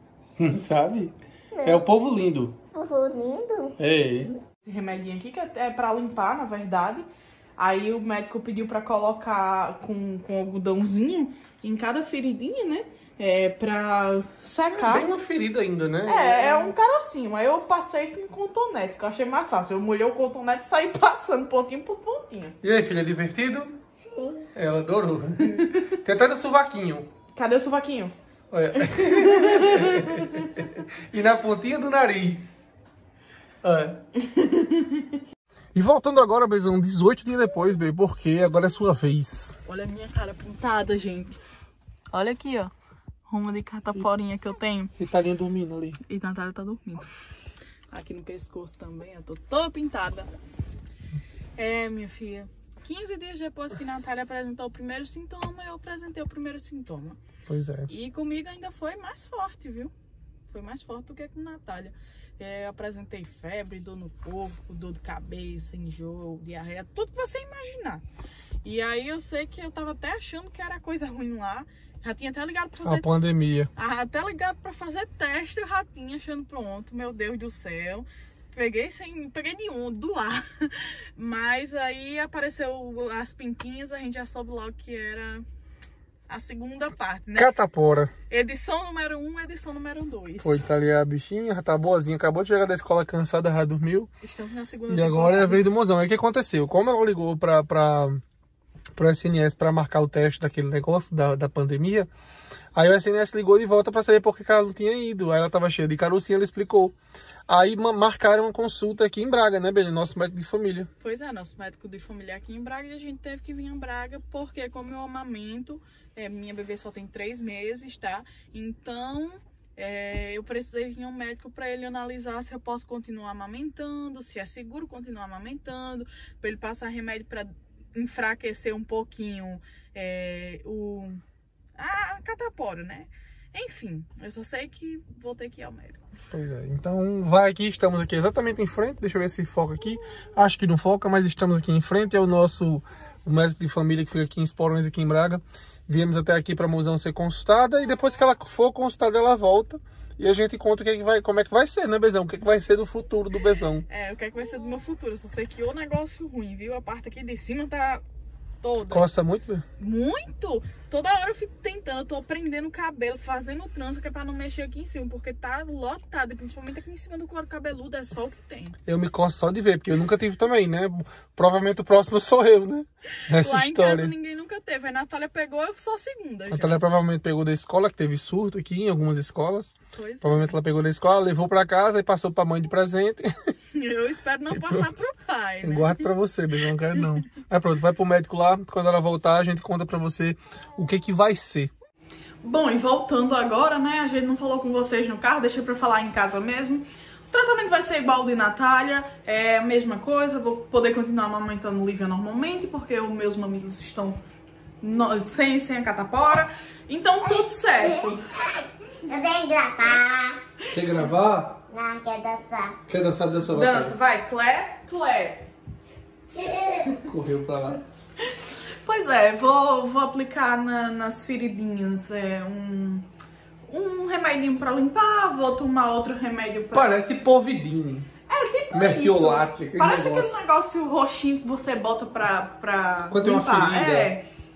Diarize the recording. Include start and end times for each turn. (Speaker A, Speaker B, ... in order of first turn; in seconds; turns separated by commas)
Speaker A: 0.4-2.6, Speaker B: 1.5-1.9, Speaker B: 2.7-3.8, Speaker A: 3.8-4.4, Speaker C: 4.7-15.1, Speaker A: 14.7-16.8, Speaker C: 16.1-22.6, Speaker A: 22.6-23.8, Speaker B: 24.1-24.5, Speaker A: 24.5-27.1, Speaker C: 27.4-28.1, Speaker A: 28.5-32.5, Speaker C: 28.8-30.5, Speaker A: 33.6-34.0, Speaker C: 34.2-35.2, Speaker A: 35.8-39.6, Speaker C: 39.6-41.4, Speaker C: 42.1-42.7, Speaker C: 43.3-44.9, Speaker A: 45.0-46.0, Speaker C: 46.0-47.1, Speaker C: 47.9-50.3, Speaker C: 51.6-57.2, Speaker A: 57.5-57.9, Speaker C: 57.9-59.9, Speaker C: 60.5-68.0, Speaker C: 68.6-73.1, Speaker A: 72.8-73.7, Speaker C: 73.8-85.5, Speaker C: 86.3-87.5, Speaker A: 87.4-88.1, Speaker C: 88.3-90.7, Speaker A: 90.4-94.1, Speaker C: 94.2-95.6, Speaker A: 94.9-98.2, Speaker A: 99.0-102.1, Speaker A: 102.8-107.0, Speaker A: 107.5-110.9, Speaker C: 111.0-131.2, Speaker C: 131.8-136.1, Speaker A: 136.3-153.9, Speaker C: 153.9-158.0, Speaker C: 158.6-159.1, Speaker A: 158.9-159.6, Speaker C: 159.8-168.8, Speaker A: 168.9-174.1, Speaker C: 173.3-176.8, Speaker A: 176.5-183.5, Speaker C: 179.9-180.6, Speaker C: 183.7-186.1, Speaker A: 184.5-185.0, Speaker A: 185.6-191.7, Speaker C: 192.4-204.2, Speaker C: 204.8-208.3, Speaker B: 209.1-210.4, Speaker A: 210.7-211.6, Speaker B: 211.7-212.8, Speaker A: 212.9-213.9, Speaker C: 213.5-215.5, Speaker B: 216.3-217.0, Speaker A: 217.1-217.8, Speaker C: 218.3-223.1, Speaker C: 223.7-226.9, Speaker A: 226.7-228.1, Speaker C: 228.3-234.2, Speaker A: 228.7-230.3, Speaker A: 233.1-234.1